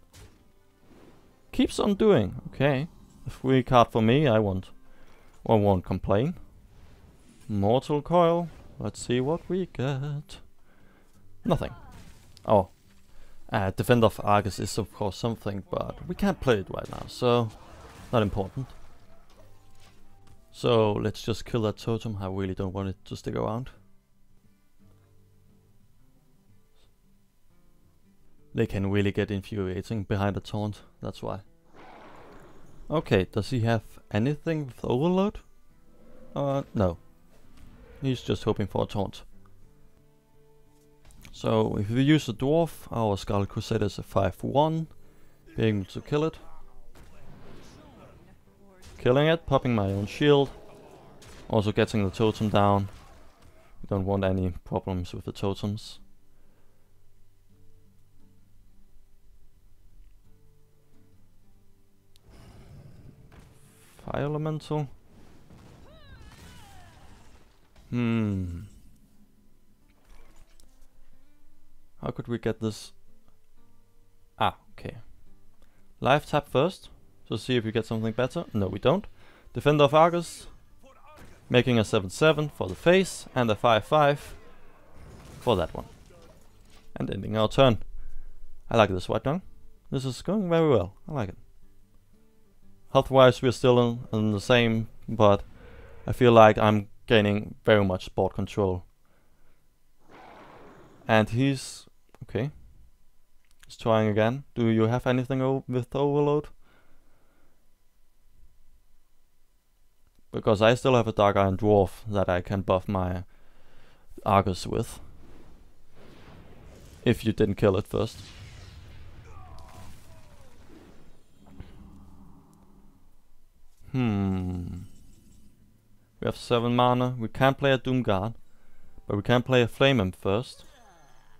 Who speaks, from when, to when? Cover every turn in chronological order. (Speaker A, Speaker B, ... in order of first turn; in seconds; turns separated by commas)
Speaker A: 1.5-6.5, Speaker A: 7.5-10.5, Speaker A: 11.4-11.8, Speaker A: 12.4-12.8, Speaker A: 13.4-18.8, Speaker A: 20.5-23.8, Speaker A: 28.5-31.4, Speaker A: 32.9-35.5, Speaker A: 36.3-37.1, Speaker A: 38.0-39.2, Speaker A: 41.3-46.5, Speaker A: 49.0-50.6, Speaker A: 51.5-53.0, Speaker A: 53.8-56.0, Speaker A: 64.0-64.9, Speaker A: 67.9-68.7, Speaker A: 72.0-73.0, Speaker A: 74.4-75.2, Speaker A: 76.0-80.5, Speaker A: 81.5-84.5, Speaker A: 85.4-86.0, Speaker A: 86.9-88.0, Speaker A: 88.7-91.4, Speaker A: 92.9-98.9, Speaker A: 101.0-102.7, Speaker A: 103.7-106.6, Speaker A: 110.3-115.1, Speaker A: 117.0-118.3, Speaker A: 123.9-124.9, Speaker A: 126.2-130.7